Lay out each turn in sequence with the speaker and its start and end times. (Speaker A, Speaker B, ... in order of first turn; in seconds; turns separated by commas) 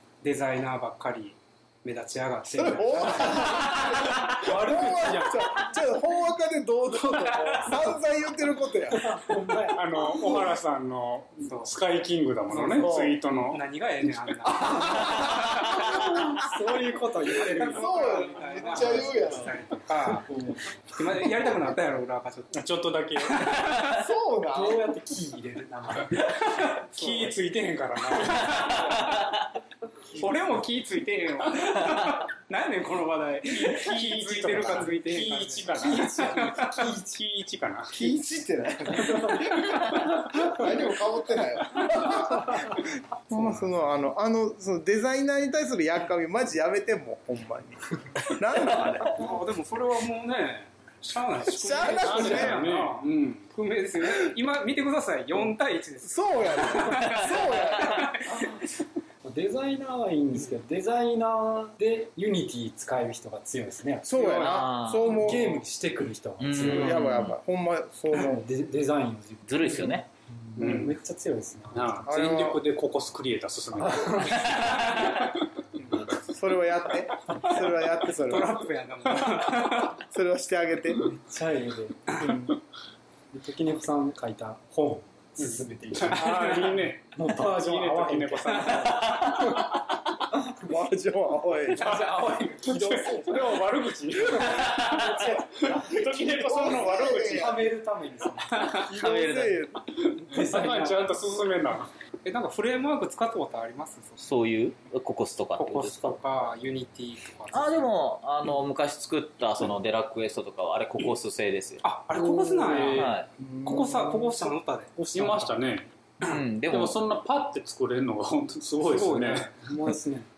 Speaker A: 0.2-4.0, Speaker B: 2.5-9.3, Speaker C: 4.3-5.5, Speaker A: 7.4-7.8, Speaker C: 9.0-9.8, Speaker D: 9.7-13.6, Speaker B: 10.0-10.4, Speaker A: 11.5-11.8, Speaker A: 12.5-12.9, Speaker B: 12.8-13.2, Speaker A: 13.5-16.0, Speaker B: 14.7-15.9, Speaker C: 14.9-19.2, Speaker A: 17.5-20.3, Speaker B: 17.6-19.6, Speaker A: 20.9-22.7, Speaker D: 22.5-23.5, Speaker A: 23.2-24.1, Speaker B: 23.9-24.9, Speaker C: 24.5-26.2, Speaker D: 26.2-28.8, Speaker A: 26.3-27.4, Speaker A: 28.2-29.2, Speaker A: 30.1-36.9, Speaker D: 33.5-38.1, Speaker C: 35.7-36.9, Speaker B: 37.9-49.3, Speaker A: 43.3-43.7, Speaker A: 49.1-58.6, Speaker B: 51.5-52.7, Speaker D: 52.0-53.5, Speaker B: 56.0-58.2, Speaker C: 59.2-64.4, Speaker B: 64.0-65.6, Speaker A: 64.1-64.7, Speaker E: 64.3-65.1, Speaker C: 65.0-67.1, Speaker E: 66.4-67.4, Speaker B: 66.6-68.5, Speaker C: 68.1-72.1, Speaker E: 69.5-70.1, Speaker D: 70.6-71.0, Speaker D: 71.7-75.2, Speaker B: 72.1-72.6, Speaker C: 73.8-74.6, Speaker E: 74.5-75.0, Speaker B: 75.8-78.7, Speaker A: 78.2-80.0, Speaker B: 79.5-81.1, Speaker C: 81.1-82.1, Speaker A: 82.1-82.4, Speaker B: 82.2-82.6, Speaker C: 83.3-89.7, Speaker D: 85.4-89.6, Speaker A: 86.2-86.7, Speaker E: 89.1-89.5, Speaker B: 90.5-91.9, Speaker C: 91.8-93.5, Speaker D: 91.8-97.6, Speaker A: 91.8-92.8, Speaker C: 94.5-96.0, Speaker E: 94.7-95.1, Speaker B: 95.1-97.7, Speaker C: 96.6-98.9, Speaker B: 98.8-99.9, Speaker E: 98.9-99.6, Speaker D: 100.0-101.9, Speaker C: 100.3-101.1, Speaker A: 102.2-104.2, Speaker E: 104.2-106.2, Speaker A: 105.6-107.9, Speaker E: 107.5-111.8, Speaker A: 111.8-115.4, Speaker C: 112.3-112.9, Speaker D: 112.4-113.2, Speaker E: 112.9-113.3, Speaker B: 113.4-114.1, Speaker C: 115.0-115.5, Speaker D: 115.1-115.9, Speaker E: 116.2-117.0, Speaker D: 116.7-119.5, Speaker A: 118.8-119.6, Speaker C: 119.6-120.3